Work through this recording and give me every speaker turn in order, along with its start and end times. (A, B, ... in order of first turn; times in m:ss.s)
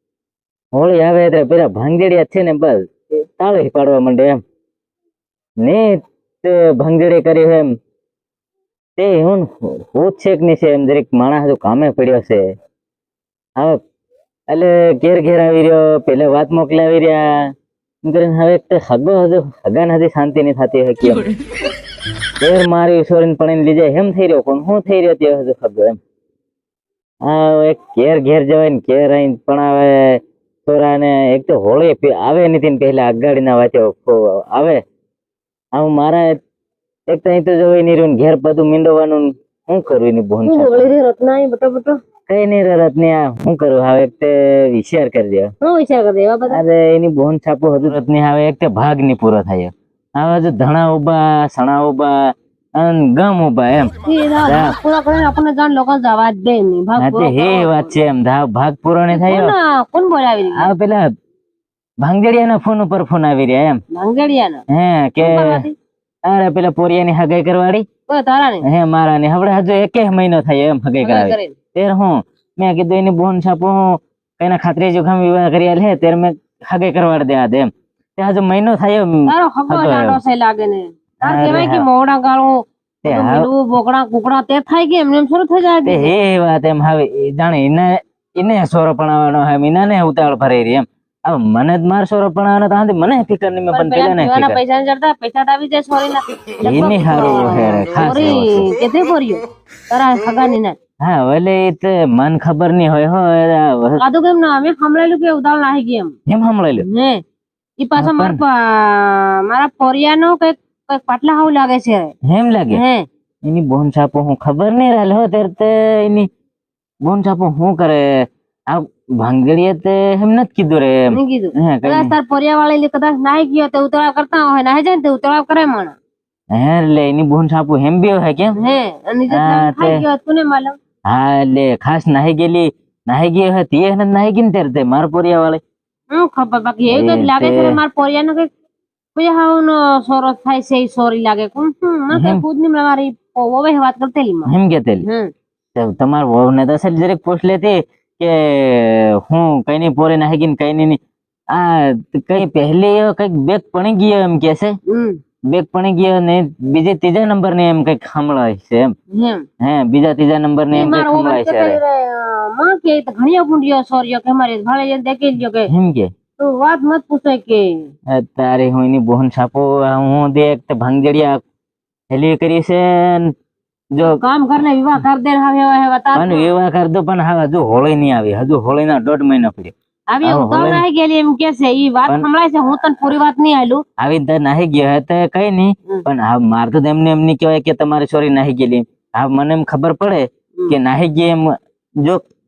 0:00.7-0:04.4 A
0:05.6-0:07.7 A
0:09.0-0:12.4 A
0:14.5-0:17.4 A
0:18.0-0:21.2 A
0:22.4-0:26.0 A
0:27.2-0:34.8 A
0:35.8-0:36.4 A
0:37.1-0:40.9 A
0:40.4-0:42.0 B
0:42.3-0:45.5 A
0:45.6-0:46.6 B
0:46.5-0:53.9 A
0:54.0-0:58.0 B
0:54.4-0:54.8 A
0:57.0-0:59.5 A
0:59.1-1:00.7 B
1:00.6-1:01.1 A
1:02.0-1:03.8 A
1:03.9-1:04.6 B
1:04.7-1:05.6 A
1:05.2-1:05.8 B
1:06.3-1:07.8 A
1:08.1-1:08.6 B
1:08.6-1:20.2 A
1:11.0-1:11.6 B
1:19.3-1:26.1 B
1:21.2-1:21.9 A
1:23.0-1:23.5 A
1:25.8-1:34.6 A
1:33.7-1:40.8 B
1:36.6-1:38.7 A
1:41.0-1:44.0 A
1:44.0-1:46.1 B
1:46.3-1:46.8 A
1:46.8-1:47.2 B
1:47.8-1:52.1 B
1:48.0-1:48.4 A
1:52.3-1:52.8 A
1:52.7-1:53.1 B
1:53.4-1:56.3 A
1:57.0-2:02.1 A
2:01.1-2:06.0 B
2:06.5-2:08.6 A
2:08.6-2:10.8 B
2:09.3-2:10.0 A
2:11.1-2:15.6 A
2:16.1-2:18.5 B
2:16.9-2:17.8 A
2:19.2-2:24.5 B
2:22.1-2:22.4 A
2:24.5-2:25.1 A
2:25.0-2:25.3 B
2:25.8-2:31.0 A
2:31.5-2:34.8 A
2:34.9-2:35.2 B
2:35.5-2:38.9 A
2:39.1-2:39.4 B
2:39.6-2:41.8 A
2:40.7-2:45.7 B
2:45.7-2:46.1 A
2:46.4-2:47.9 B
2:48.1-2:51.4 A
2:52.1-2:53.3 A
2:54.0-2:56.5 B
2:56.2-3:00.8 A
3:00.1-3:03.8 B
3:04.0-3:12.2 A